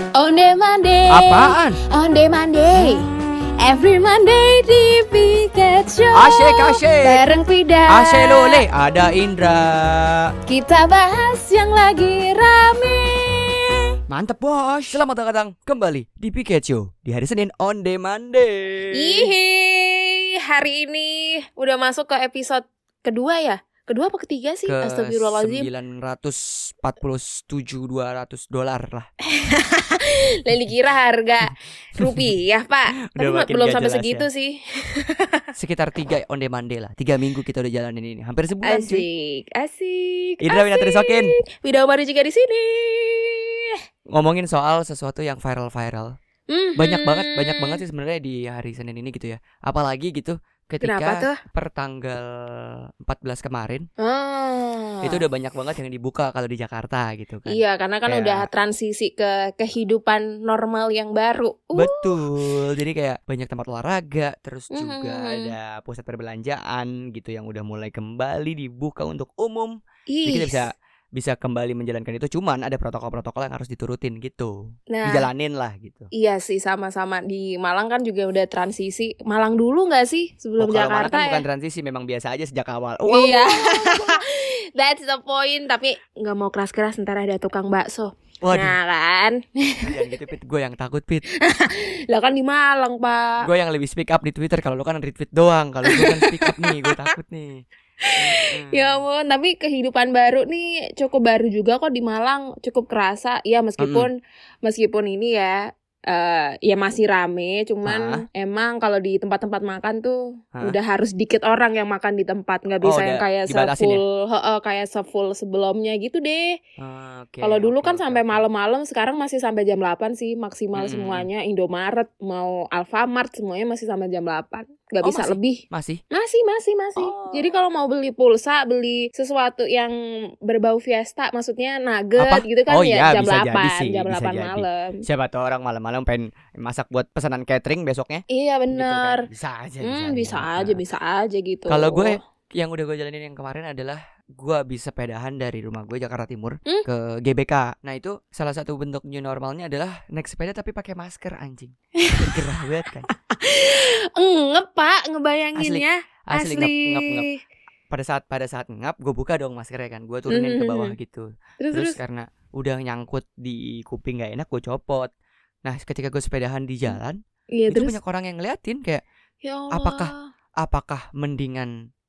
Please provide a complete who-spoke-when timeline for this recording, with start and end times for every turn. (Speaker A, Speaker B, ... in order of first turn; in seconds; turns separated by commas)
Speaker A: 0.1-8.7, Speaker B: 1.1-1.8, Speaker B: 2.8-3.1, Speaker B: 6.1-7.2, Speaker B: 7.9-10.3, Speaker A: 10.5-13.7, Speaker B: 14.1-19.3, Speaker A: 18.9-25.7, Speaker B: 24.7-29.1, Speaker A: 29.3-35.5, Speaker B: 31.5-32.4, Speaker B: 33.1-34.3, Speaker B: 35.5-39.0, Speaker A: 38.6-43.8, Speaker B: 40.4-41.4, Speaker B: 44.1-46.1, Speaker A: 46.5-47.8, Speaker B: 46.8-53.9, Speaker A: 50.8-51.4, Speaker A: 54.0-55.2, Speaker B: 55.0-58.5, Speaker A: 57.5-62.1, Speaker B: 61.8-76.1, Speaker A: 64.7-65.5, Speaker A: 70.1-70.6, Speaker A: 74.9-75.3, Speaker A: 76.1-81.4, Speaker B: 80.6-84.2, Speaker A: 83.1-90.0, Speaker B: 88.4-88.8, Speaker B: 89.8-91.2, Speaker A: 91.4-93.4, Speaker B: 93.4-97.6, Speaker A: 95.9-96.8, Speaker A: 98.0-116.6, Speaker B: 98.2-99.0, Speaker B: 103.8-104.1, Speaker B: 107.8-108.2, Speaker B: 112.8-114.0, Speaker B: 116.8-118.4, Speaker A: 117.4-135.0, Speaker B: 120.8-121.3, Speaker B: 125.0-126.0, Speaker B: 127.0-127.5, Speaker B: 132.2-140.8, Speaker A: 138.3-139.2, Speaker A: 139.8-142.2, Speaker B: 141.7-153.1, Speaker A: 152.0-152.4, Speaker A: 153.1-157.4, Speaker B: 155.6-157.3, Speaker B: 157.9-165.1, Speaker A: 160.3-160.9, Speaker A: 161.6-162.0, Speaker B: 165.7-169.0, Speaker A: 167.5-168.0, Speaker A: 169.4-170.2, Speaker B: 169.7-171.7